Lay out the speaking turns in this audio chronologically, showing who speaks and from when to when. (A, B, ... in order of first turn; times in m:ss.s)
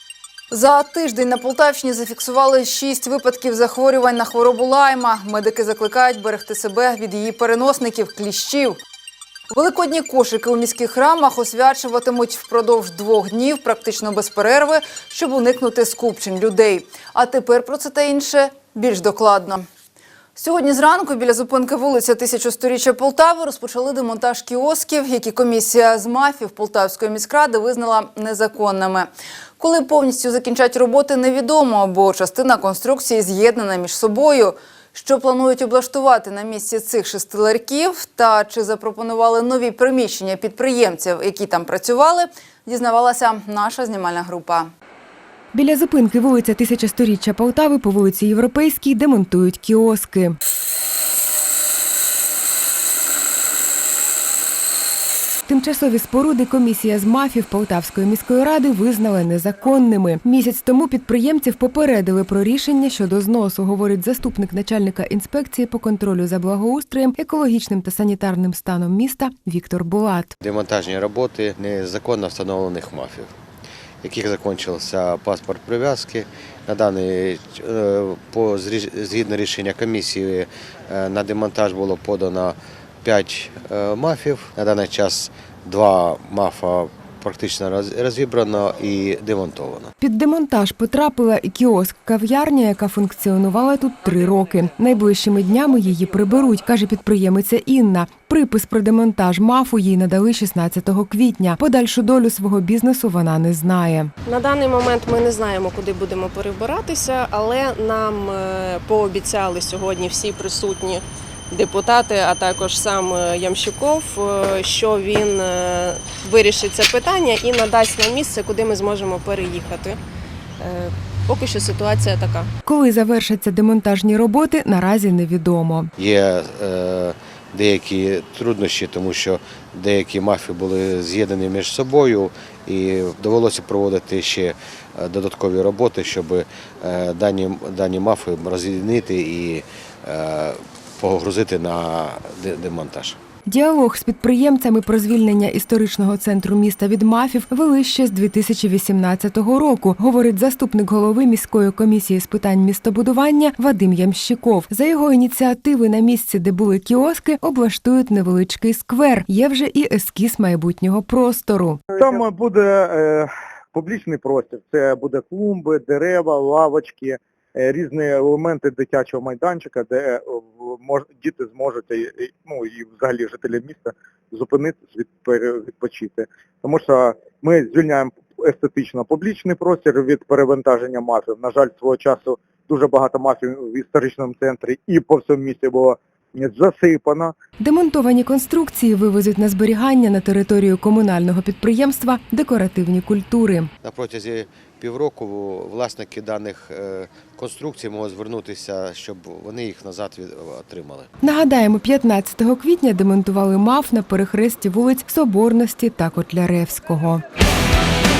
0:00.5-0:08.8 A
0:09.5-0:19.6 A
0:20.4-0:44.7 A
0:45.5-0:50.4 B
0:55.5-1:10.3 B
1:10.4-1:13.3 C
1:14.0-1:29.9 C
1:30.0-1:44.1 B
1:44.2-2:00.0 D
2:00.6-2:02.5 D
2:02.6-2:05.9 B
2:06.0-2:23.2 C
2:23.5-2:41.8 B
2:41.9-3:07.3 E
3:07.6-3:13.7 B
3:13.8-3:21.1 C
3:21.2-3:27.2 B